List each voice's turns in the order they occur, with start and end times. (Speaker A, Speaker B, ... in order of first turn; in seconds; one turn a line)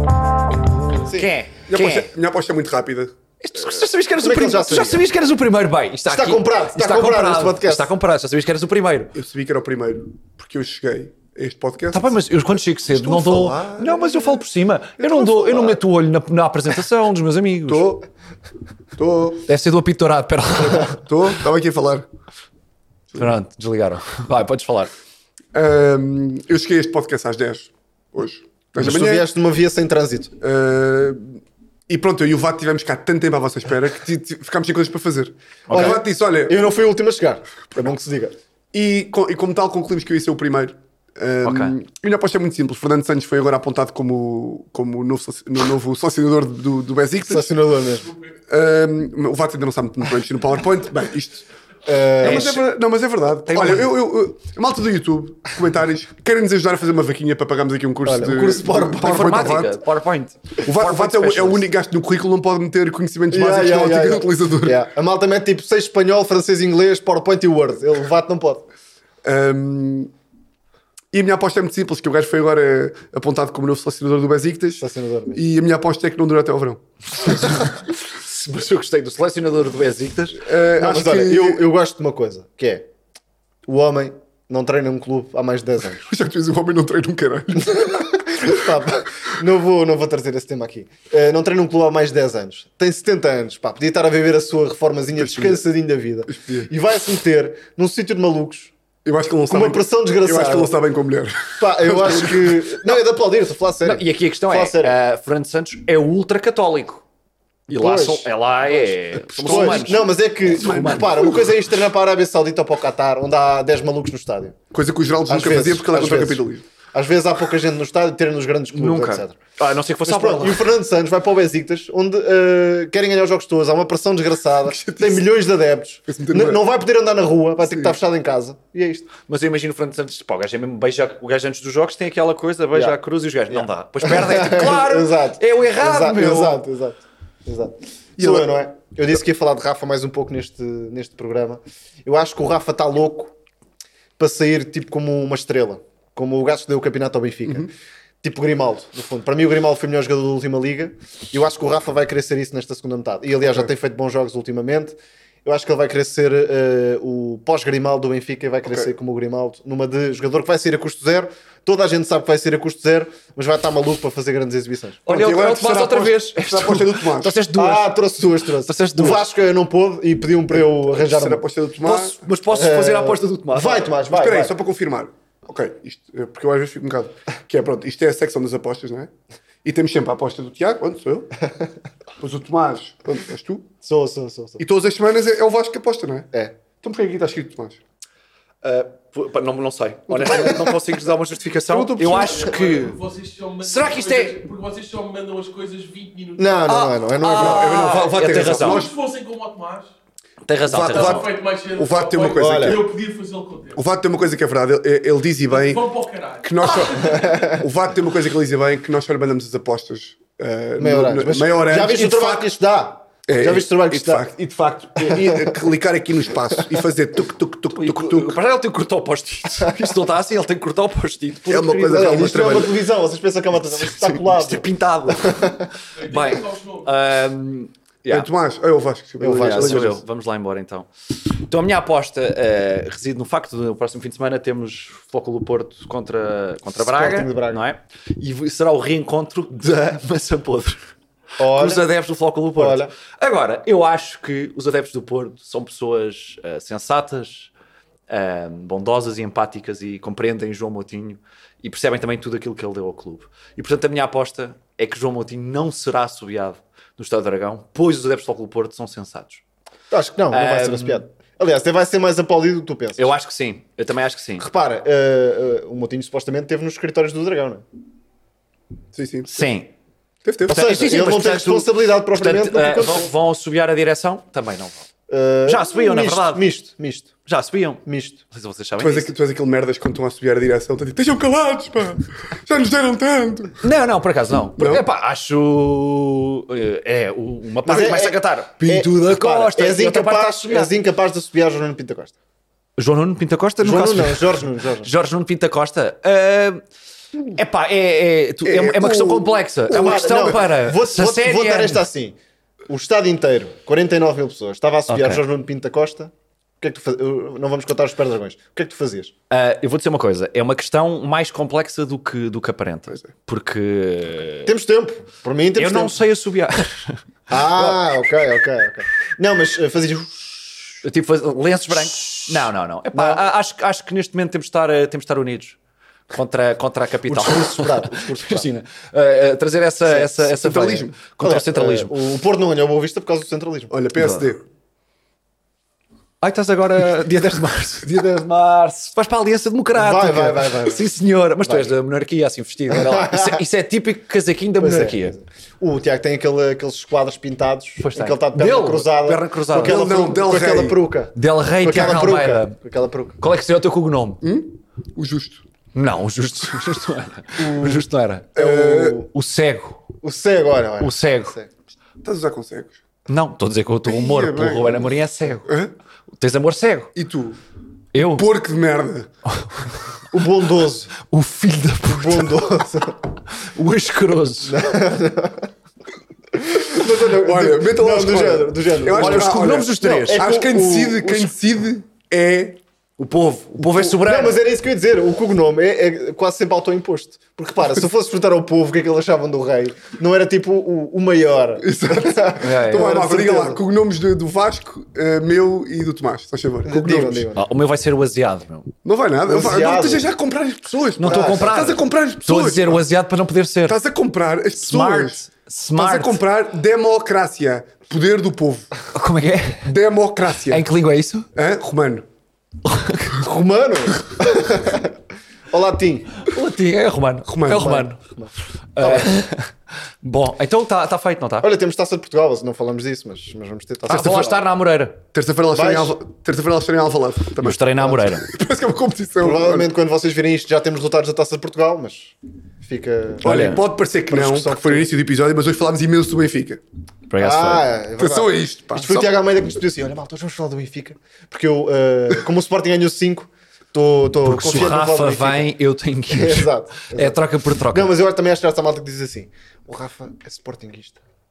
Speaker A: 1.1-2.1
Speaker B: 1.7-3.1
Speaker A: 3.4-9.1
Speaker C: 4.2-5.0
Speaker C: 6.1-7.9
Speaker B: 9.1-12.1
Speaker A: 11.9-17.9
Speaker B: 12.9-14.2
Speaker C: 13.4-13.8
Speaker B: 15.0-15.8
Speaker B: 17.7-18.0
Speaker B: 19.0-19.4
Speaker A: 19.4-21.0
Speaker B: 20.8-22.1
Speaker A: 23.1-24.9
Speaker B: 25.5-29.3
Speaker C: 28.8-30.3
Speaker B: 30.4-36.5
Speaker A: 35.7-36.0
Speaker C: 35.7-38.3
Speaker B: 38.7-47.5
Speaker A: 41.4-41.7
Speaker C: 47.3-48.1
Speaker B: 48.5-51.4
Speaker C: 51.9-52.6
Speaker B: 52.2-59.8
Speaker A: 52.2-52.6
Speaker A: 53.5-53.9
Speaker C: 58.0-59.4
Speaker A: 58.3-61.6
Speaker B: 60.6-64.9
Speaker C: 63.3-68.6
Speaker B: 69.2-70.1
Speaker B: 71.1-77.3
Speaker C: 74.8-75.4
Speaker A: 77.2-80.4
Speaker B: 80.4-81.6
Speaker C: 80.7-82.8
Speaker C: 83.7-86.0
Speaker B: 86.0-88.5
Speaker C: 87.7-98.7
Speaker B: 95.2-95.6
Speaker B: 96.3-96.7
Speaker B: 99.0-102.9
Speaker C: 99.5-100.8
Speaker C: 101.6-104.9
Speaker A: 103.8-107.0
Speaker A: 107.7-111.3
Speaker C: 107.7-108.3
Speaker B: 109.2-110.0
Speaker C: 109.4-114.6
Speaker B: 110.6-111.5
Speaker B: 114.7-116.6
Speaker C: 115.3-119.4
Speaker A: 118.7-120.6
Speaker C: 120.0-129.1
Speaker B: 124.6-125.3
Speaker B: 126.1-126.6
Speaker B: 127.6-128.0
Speaker A: 129.3-136.6
Speaker C: 133.5-143.3
Speaker B: 138.2-138.5
Speaker C: 144.2-147.7
Speaker C: 148.2-165.0
Speaker A: 165.1-167.9
Speaker B: 165.1-167.4
Speaker C: 167.5-171.4
Speaker A: 168.7-169.2
Speaker B: 170.5-172.2
Speaker A: 171.8-173.9
Speaker C: 172.5-174.5
Speaker B: 174.1-179.1
Speaker B: 179.6-181.3
Speaker B: 182.2-183.7
Speaker C: 183.8-184.6
Speaker B: 184.6-186.3
Speaker B: 186.8-187.8
Speaker A: 188.6-193.0
Speaker B: 190.1-190.6
Speaker B: 191.7-192.4
Speaker D: 192.0-196.9
Speaker A: 193.6-194.4
Speaker C: 196.4-197.7
Speaker A: 196.7-198.9
Speaker B: 197.2-198.9
Speaker D: 198.2-199.9
Speaker A: 200.4-201.3
Speaker B: 200.7-202.9
Speaker D: 200.8-203.8
Speaker C: 202.3-202.8
Speaker B: 203.7-205.8
Speaker D: 205.5-207.4
Speaker B: 206.4-212.4
Speaker C: 207.1-207.6
Speaker C: 210.8-214.3
Speaker B: 213.3-218.4
Speaker C: 215.0-215.5
Speaker A: 217.8-222.4
Speaker B: 221.5-222.8
Speaker C: 221.9-224.7
Speaker A: 223.6-228.3
Speaker C: 225.2-225.6
Speaker D: 226.0-226.9
Speaker B: 228.1-230.0
Speaker C: 229.2-229.9
Speaker A: 229.3-240.8
Speaker C: 236.7-237.6
Speaker C: 241.4-241.9
Speaker A: 241.4-247.5
Speaker C: 242.6-242.9
Speaker A: 248.1-259.4
Speaker C: 259.9-263.1
Speaker A: 260.3-261.0
Speaker A: 263.0-264.4
Speaker C: 264.4-267.6
Speaker B: 268.9-269.3
Speaker A: 269.3-269.7
Speaker B: 270.2-270.7
Speaker C: 270.5-273.1
Speaker A: 270.5-274.9
Speaker C: 275.1-277.1
Speaker A: 275.5-276.5
Speaker A: 277.2-279.1
Speaker C: 277.9-278.2
Speaker B: 278.8-283.6
Speaker A: 283.6-290.7
Speaker B: 284.6-284.8
Speaker C: 287.6-292.1
Speaker A: 292.8-296.6
Speaker C: 293.6-294.9
Speaker A: 297.3-301.9
Speaker B: 298.4-300.4
Speaker C: 299.7-302.1
Speaker C: 302.7-309.1
Speaker A: 304.9-305.2
Speaker A: 309.3-314.5
Speaker C: 314.4-315.9
Speaker A: 315.6-317.9
Speaker C: 317.3-320.6
Speaker A: 320.8-325.6
Speaker C: 322.9-323.2
Speaker A: 326.1-331.9
Speaker C: 327.1-328.5
Speaker B: 330.2-331.0
Speaker C: 331.2-333.8
Speaker B: 333.7-334.4
Speaker A: 334.0-334.3
Speaker A: 336.2-345.2
Speaker C: 339.7-340.9
Speaker C: 341.4-341.7
Speaker C: 342.7-343.4
Speaker C: 344.6-353.1
Speaker A: 347.8-349.8
Speaker B: 349.5-350.8
Speaker A: 351.1-352.5
Speaker A: 353.2-354.2
Speaker B: 354.2-355.4
Speaker A: 355.7-359.8
Speaker C: 357.4-357.8
Speaker B: 358.3-359.0
Speaker C: 358.4-359.1
Speaker C: 360.0-361.5
Speaker A: 360.8-361.3
Speaker B: 362.0-362.8
Speaker A: 363.1-365.5
Speaker B: 363.8-364.9
Speaker B: 365.4-365.7
Speaker A: 366.2-366.9
Speaker B: 366.9-367.4
Speaker A: 367.9-368.2
Speaker B: 367.9-369.1
Speaker A: 369.3-369.7
Speaker C: 370.1-370.9
Speaker A: 371.1-372.6
Speaker C: 371.8-372.9
Speaker A: 373.3-374.6
Speaker C: 374.4-375.5
Speaker C: 376.3-381.3
Speaker B: 377.1-382.6
Speaker A: 378.9-380.2
Speaker A: 383.0-384.4
Speaker C: 383.8-393.6
Speaker B: 391.6-397.2
Speaker A: 392.4-392.9
Speaker C: 396.6-397.4
Speaker A: 397.3-398.7
Speaker B: 398.8-402.8
Speaker C: 399.2-400.1
Speaker A: 401.0-403.8
Speaker C: 401.1-401.5
Speaker B: 403.6-405.2
Speaker A: 404.6-406.2
Speaker B: 405.7-408.7
Speaker A: 408.9-409.7
Speaker B: 409.6-410.6
Speaker A: 410.4-411.3
Speaker B: 411.3-412.1
Speaker A: 412.6-413.2
Speaker C: 413.2-414.9
Speaker C: 415.5-416.2
Speaker A: 416.2-418.0
Speaker B: 417.3-417.8
Speaker C: 417.5-419.1
Speaker A: 418.7-419.5
Speaker A: 420.0-421.5
Speaker C: 421.4-424.4
Speaker A: 423.9-425.0
Speaker B: 425.1-429.7
Speaker C: 425.5-425.9
Speaker A: 427.4-428.2
Speaker C: 429.2-433.3
Speaker B: 433.2-436.6
Speaker A: 433.2-433.6
Speaker C: 434.1-434.9
Speaker A: 437.1-437.6
Speaker C: 437.2-445.4
Speaker B: 438.0-439.1
Speaker A: 444.2-447.9
Speaker C: 446.1-447.2
Speaker C: 447.7-451.0